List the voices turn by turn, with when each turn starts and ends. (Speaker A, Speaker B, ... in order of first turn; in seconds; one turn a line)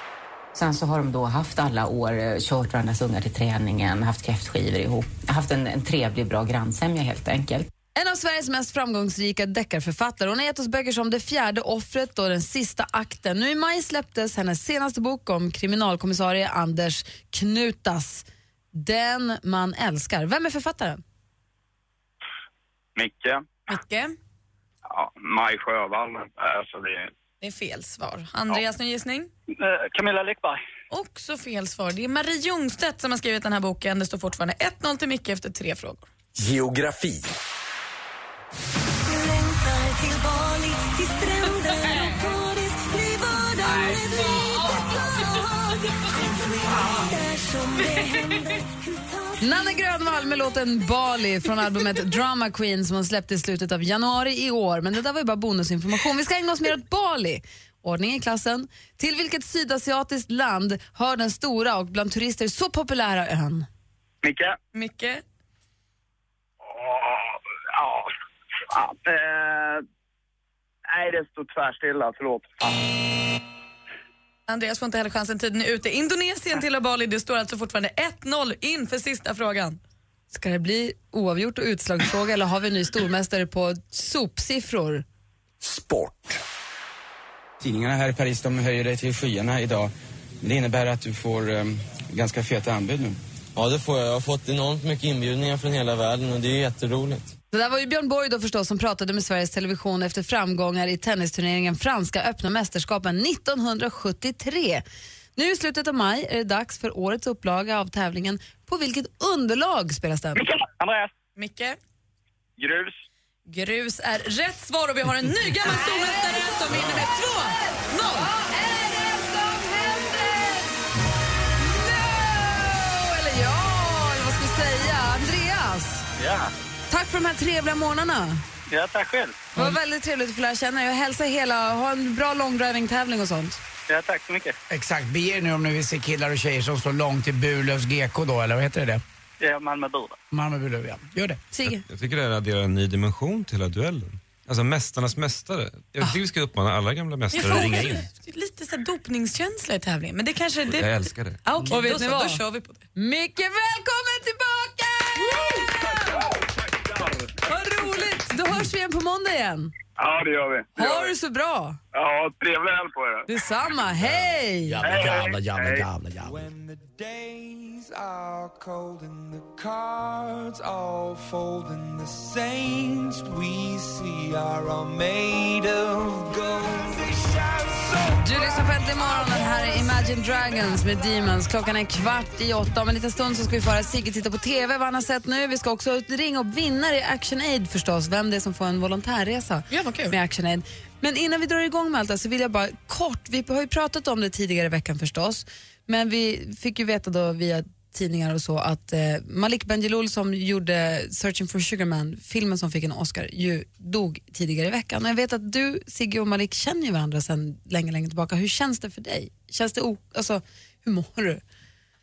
Speaker A: 0.5-7.7
Speaker B: 8.0-21.0
Speaker C: 23.0-23.5
Speaker D: 23.7-24.1
Speaker C: 24.9-27.1
Speaker D: 27.4-29.3
Speaker E: 29.6-30.6
Speaker D: 30.9-36.1
Speaker F: 36.4-37.3
Speaker B: 49.4-63.7
Speaker C: 64.2-64.6
Speaker D: 64.7-65.2
Speaker C: 66.6-68.1
Speaker C: 68.7-69.8
Speaker C: 70.9-72.8
Speaker D: 74.5-79.8
Speaker B: 80.3-85.0
Speaker F: 85.6-86.4
Speaker G: 87.7-89.8
Speaker G: 90.5-93.1
Speaker H: 93.6-97.3
Speaker B: 97.5-104.8
Speaker B: 105.4-110.4
Speaker E: 110.7-111.1
Speaker D: 111.4-111.8
Speaker C: 112.6-113.0
Speaker D: 113.5-118.3
Speaker B: 115.7-120.7
Speaker B: 121.6-126.1
Speaker E: 126.2-126.5
Speaker B: 126.9-128.4
Speaker E: 128.7-129.5
Speaker B: 129.6-133.6
Speaker E: 133.9-134.6
Speaker I: 134.7-139.0
Speaker E: 139.4-140.2
Speaker I: 140.3-141.4
Speaker B: 141.5-141.8
Speaker J: 141.7-148.1
Speaker D: 147.3-152.8
Speaker J: 150.7-151.4
Speaker B: 151.7-152.4
Speaker B: 152.9-156.3
Speaker C: 155.8-157.3
Speaker B: 157.4-159.7
Speaker C: 160.0-161.1
Speaker B: 160.8-161.8
Speaker C: 161.9-163.3
Speaker B: 163.3-164.9
Speaker I: 164.7-166.4
Speaker F: 164.8-165.3
Speaker C: 164.8-165.9
Speaker K: 166.2-179.8
Speaker B: 178.2-211.4
Speaker D: 189.7-190.2